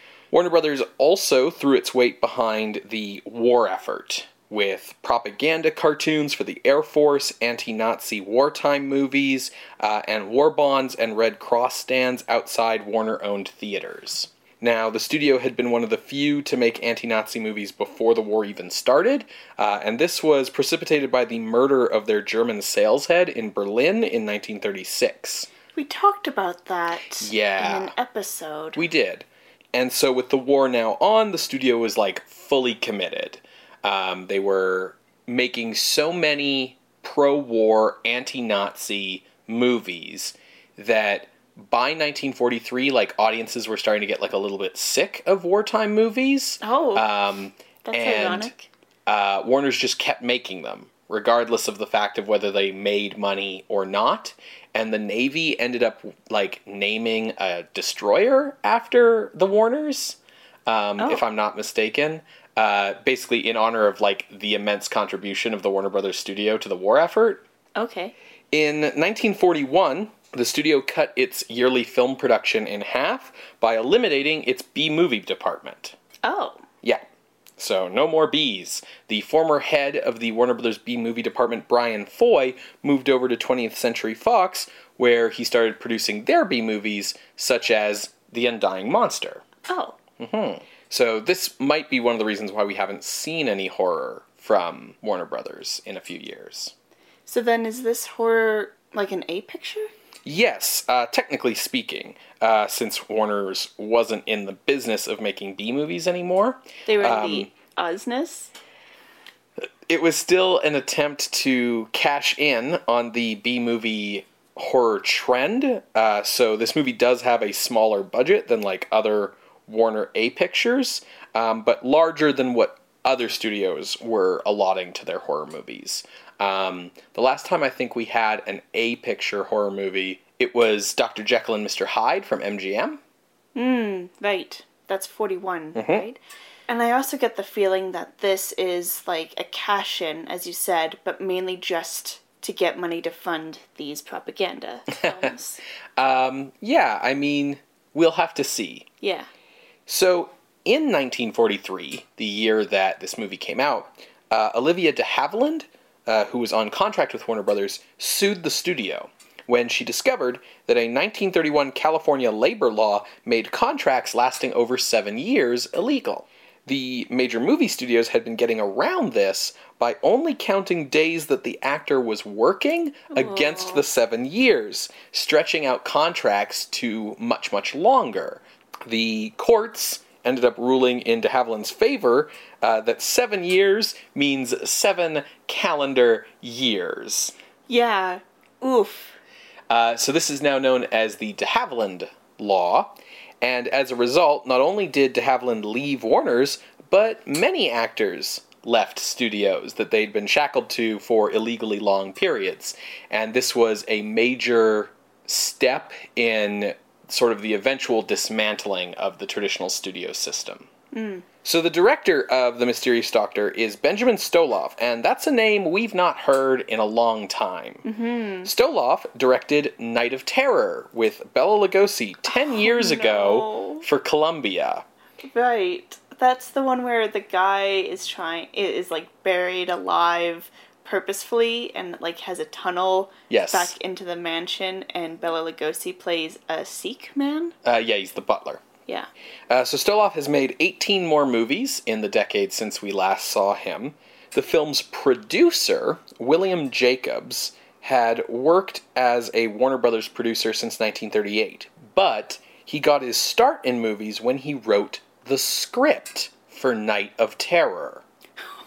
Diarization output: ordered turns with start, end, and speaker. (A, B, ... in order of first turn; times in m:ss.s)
0:00.3-0:25.5 A
0:25.8-0:28.8 B
0:27.2-0:27.9 A
0:28.8-0:48.5 A
0:46.6-0:47.1 B
0:47.8-0:48.7 B
0:49.1-1:07.4 A
1:07.8-1:08.1 B
1:08.5-1:16.0 A
1:16.2-1:16.6 B
1:17.6-1:29.4 A
1:29.6-1:30.0 B
1:30.2-1:36.7 A
1:37.3-1:39.9 B
1:40.2-1:47.5 A
1:46.9-1:48.5 B
1:49.9-2:13.0 A
2:13.6-2:25.6 B
2:15.8-2:16.0 A
2:24.9-2:25.3 A
2:26.0-2:28.9 A
2:29.0-2:29.3 B
2:29.9-3:07.3 A
2:53.1-2:53.8 B
3:07.7-3:09.2 B
3:09.7-3:30.7 A
3:30.9-3:31.2 B
3:31.4-3:37.8 A
3:37.8-3:38.5 B
3:38.4-3:44.8 A
3:42.3-3:43.8 B
3:45.2-3:57.6 B
3:53.3-3:53.7 A
3:57.6-3:58.6 A
3:59.5-4:18.0 A